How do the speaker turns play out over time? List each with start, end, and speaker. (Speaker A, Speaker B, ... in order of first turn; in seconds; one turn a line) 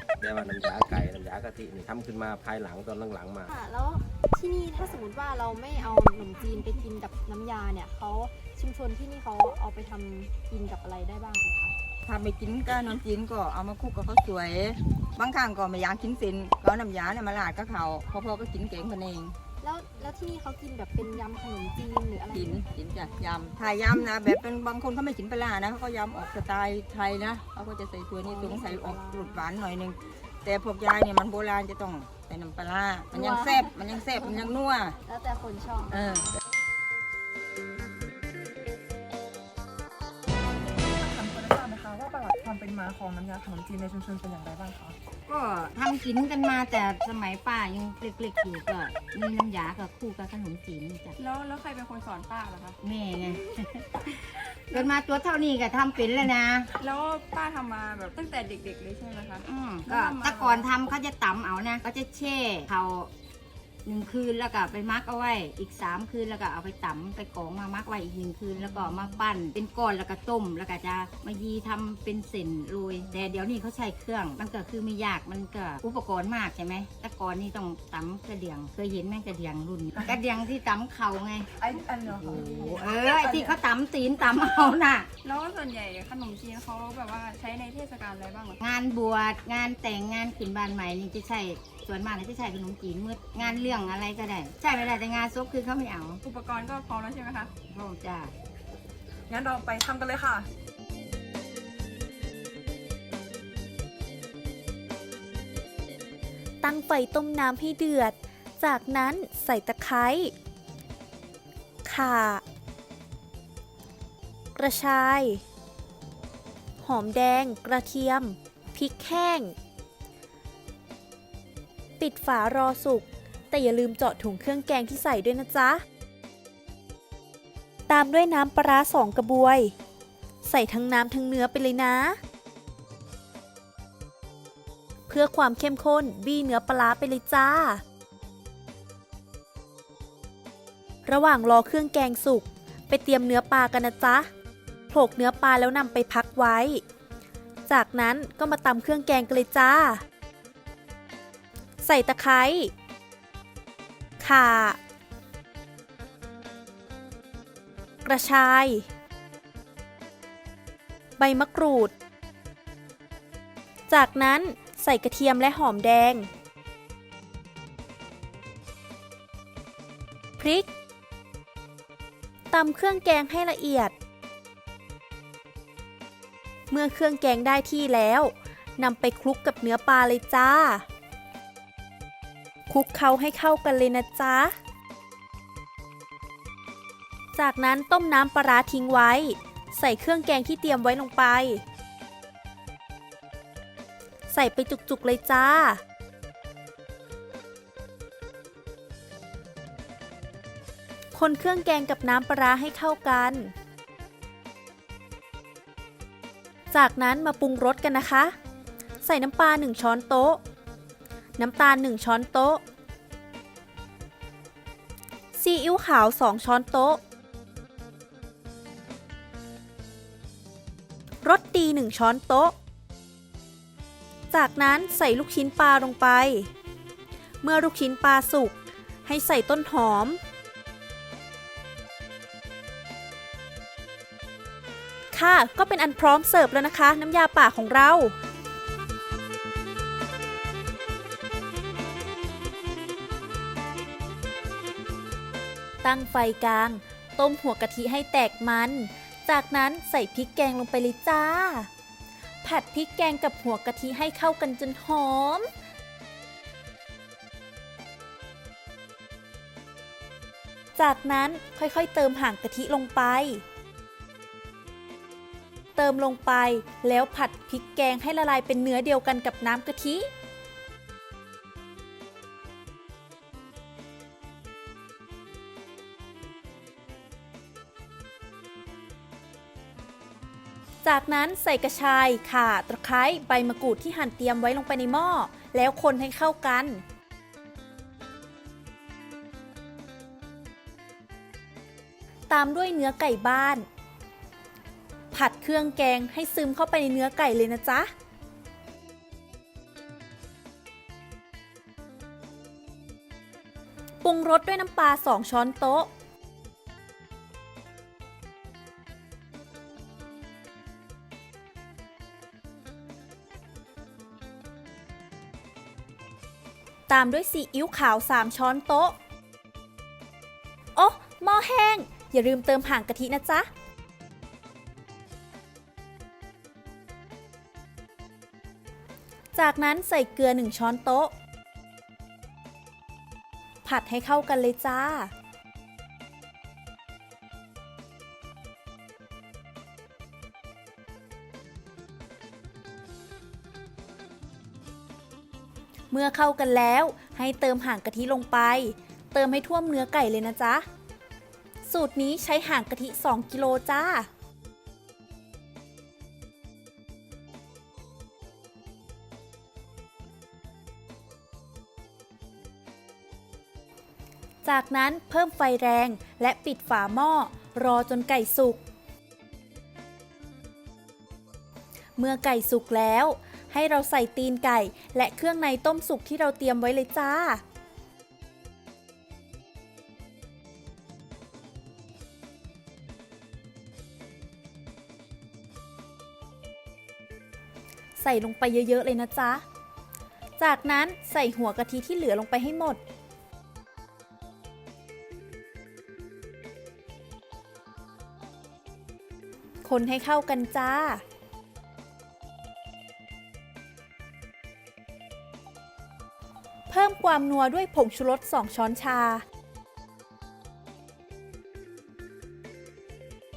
Speaker A: 0.2-3.5
Speaker B: 3.5-11.8
Speaker C: 12.1-19.4
Speaker B: 19.6-22.6
Speaker C: 22.3-35.0
Speaker B: 28.2-29.4
Speaker B: 33.2-33.6
Speaker B: 35.1-36.0
Speaker C: 35.9-36.3
Speaker D: 41.0-45.0
Speaker E: 45.3-51.2
Speaker F: 51.2-52.8
Speaker E: 52.8-56.7
Speaker F: 56.8-60.7
Speaker E: 59.4-63.1
Speaker E: 63.9-81.5
Speaker D: 81.6-83.6
Speaker E: 82.3-85.1
Speaker F: 85.2-88.6
Speaker E: 88.6-96.2
Speaker F: 96.2-97.5
Speaker E: 97.7-98.3
Speaker D: 99.3-100.5
Speaker G: 106.6-110.3
Speaker G: 111.8-112.4
Speaker G: 114.6-115.4
Speaker G: 116.8-119.5
Speaker G: 122.0-125.8
Speaker G: 127.9-129.7
Speaker G: 130.4-132.2
Speaker G: 135.1-137.8
Speaker G: 141.1-144.3
Speaker G: 144.9-146.8
Speaker G: 147.7-150.0
Speaker G: 151.8-152.7
Speaker G: 154.2-154.8
Speaker G: 158.1-158.9
Speaker G: 161.2-161.9
Speaker G: 163.9-166.3
Speaker G: 170.4-170.7
Speaker G: 172.5-173.9
Speaker G: 176.7-180.8
Speaker G: 182.7-184.5
Speaker G: 187.4-191.6
Speaker G: 194.3-195.8
Speaker G: 201.1-203.5
Speaker G: 206.7-208.3
Speaker G: 209.0-210.4
Speaker G: 211.4-212.6
Speaker G: 215.4-217.0
Speaker G: 221.2-222.5
Speaker G: 224.3-226.5
Speaker G: 227.4-230.2
Speaker G: 235.1-238.1
Speaker G: 245.8-251.7
Speaker G: 252.4-255.5
Speaker G: 260.8-263.4
Speaker G: 265.8-270.1
Speaker G: 280.8-286.8
Speaker G: 292.3-293.7
Speaker G: 295.1-297.9
Speaker G: 304.0-305.9
Speaker G: 316.9-318.9
Speaker G: 320.8-323.5
Speaker G: 329.3-331.1
Speaker G: 333.6-335.1
Speaker G: 345.9-350.6
Speaker G: 351.6-354.1
Speaker G: 364.4-368.6
Speaker G: 372.0-377.4
Speaker G: 388.0-389.4
Speaker G: 390.4-392.8
Speaker G: 399.6-401.0
Speaker G: 406.7-409.2